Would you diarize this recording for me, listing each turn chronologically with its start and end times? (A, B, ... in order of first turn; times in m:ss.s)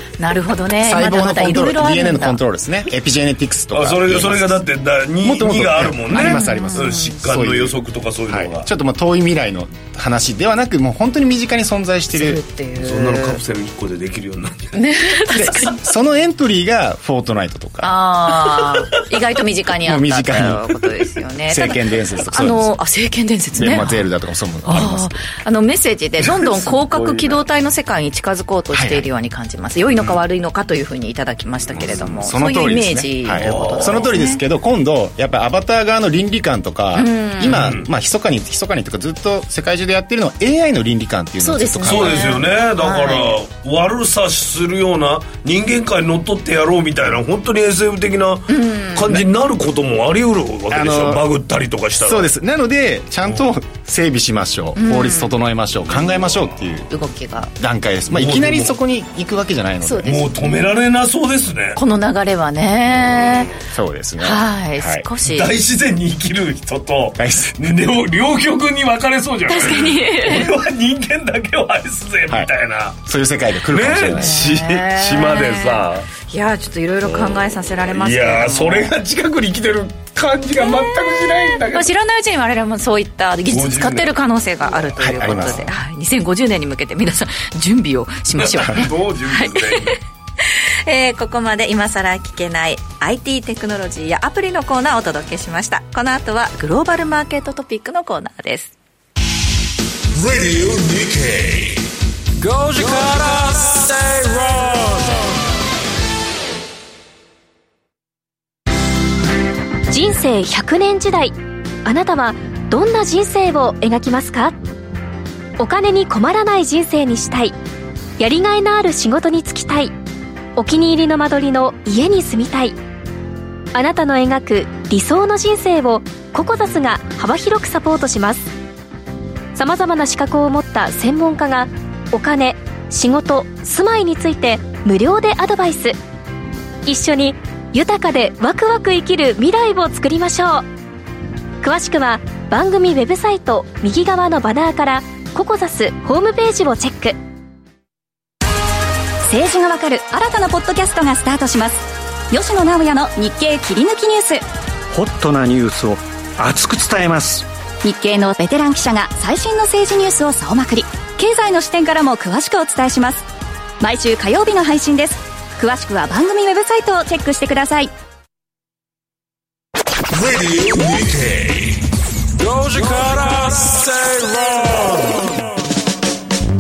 0:00.2-0:02.4 A
0:00.8-0:04.6 B
0:03.7-0:08.7 C
0:05.2-0:07.8 B
0:06.1-0:07.2 A
0:08.3-0:12.4 B
0:12.1-0:13.4 A
0:12.8-0:14.8 C
0:14.8-0:15.8 A
0:15.3-0:18.0 B
0:17.8-0:24.0 A
0:19.8-0:20.7 B
0:21.5-0:22.8 B
0:23.6-0:25.2 B
0:24.6-0:34.4 A
0:26.4-0:27.4 C
0:28.7-0:29.1 B
0:31.8-0:32.2 C
0:31.9-0:42.4 B
0:33.4-0:34.1 C
0:37.0-0:37.7 A
0:37.5-0:37.9 C
0:41.4-0:43.4 A
0:41.9-0:52.3 C
0:48.5-0:49.2 A
0:50.7-0:51.2 B
0:52.0-0:56.9 B
0:54.8-0:55.4 A
0:56.0-0:56.4 C
0:56.9-0:57.5 A
0:57.6-1:00.2 B
0:58.1-0:58.8 C
0:59.8-1:00.6 A
1:00.0-1:01.8 C
1:01.8-1:03.5 A
1:03.1-1:03.6 C
1:03.7-1:05.1 B
1:04.2-1:05.5 A
1:05.2-1:13.0 C
1:07.2-1:07.7 B
1:09.5-1:10.5 A
1:13.0-1:14.5 B
1:13.7-1:16.1 C
1:14.2-1:18.9 A
1:17.0-1:21.9 C
1:20.6-1:29.9 A
1:23.5-1:25.5 C
1:25.0-1:25.7 B
1:28.4-1:30.0 C
1:30.4-1:38.7 A
1:40.2-1:41.9 D
1:42.4-1:45.3 D
1:49.9-1:54.6 E
1:55.6-1:57.6 E
1:58.2-1:59.9 E
2:00.6-2:02.8 E
2:03.7-2:08.5 E
2:09.6-2:16.0 E
2:16.9-2:20.7 E
2:21.6-2:27.2 E
2:29.2-2:34.4 F
2:34.9-2:37.4 G
2:37.8-2:43.3 F
2:43.8-2:47.9 F
2:50.1-2:51.8 D
2:52.4-2:55.4 D